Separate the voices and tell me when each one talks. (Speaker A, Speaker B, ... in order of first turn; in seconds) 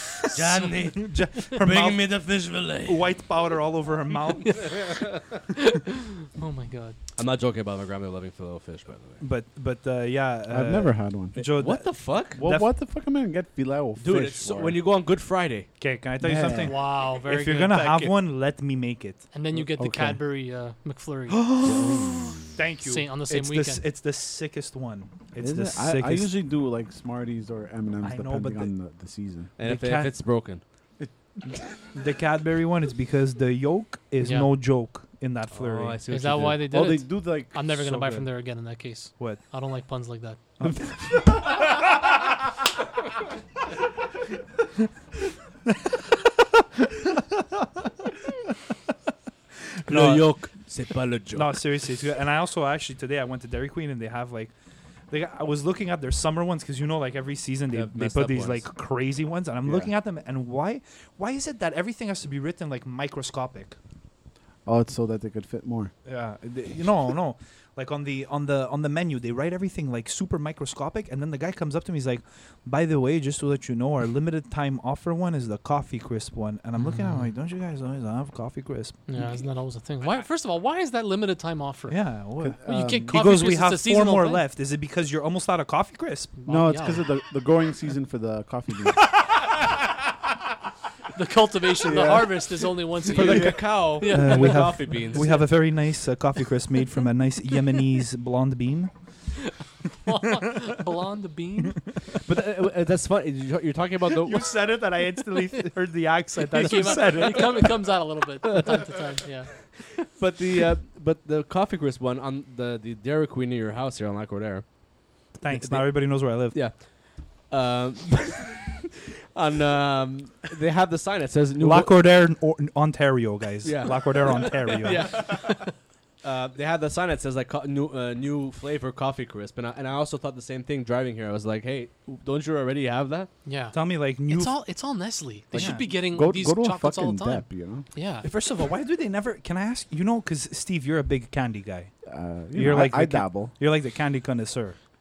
Speaker A: 0.3-3.1, 4.8-5.2, 7.2-9.2, 11.4-12.4, 14.0-15.7, 17.7-18.1, 21.6-22.4, 29.6-30.6, 35.5-36.8, 49.9-51.6, 57.7-58.6, 93.1-95.4, 102.2-104.5, 110.1-114.7, 115.5-121.9, 123.6-125.7, 126.2-133.3
Speaker B: 0.5-2.0, 2.8-4.9, 9.2-12.7, 15.8-19.3, 21.3-26.3, 28.0-28.7, 29.6-30.1, 31.9-36.0, 37.9-38.2, 40.6-41.5, 47.2-47.4, 49.8-50.3, 51.3-54.5, 55.1-63.8, 66.0-79.0, 81.9-86.3, 94.0-98.9, 104.2-107.9, 115.4-116.6, 121.6-125.3, 133.7-134.6, 135.5-135.9, 138.2-141.9, 142.5-144.8
Speaker C: 4.4-7.0, 16.5-18.0, 19.3-21.4, 22.8-23.8, 34.2-34.5, 36.1-40.4, 76.8-77.3, 79.1-84.4, 86.4-87.1, 91.1-95.5, 100.0-101.8, 106.4-109.5, 133.4-138.3
Speaker D: 10.5-11.4, 12.3-14.8, 16.2-16.7, 19.8-20.2, 21.7-22.4, 25.4-29.5, 36.7-37.6, 59.6-59.9, 64.6-65.9, 82.4-83.2, 86.5-89.2, 91.8-93.6, 135.5-137.9, 142.0-143.5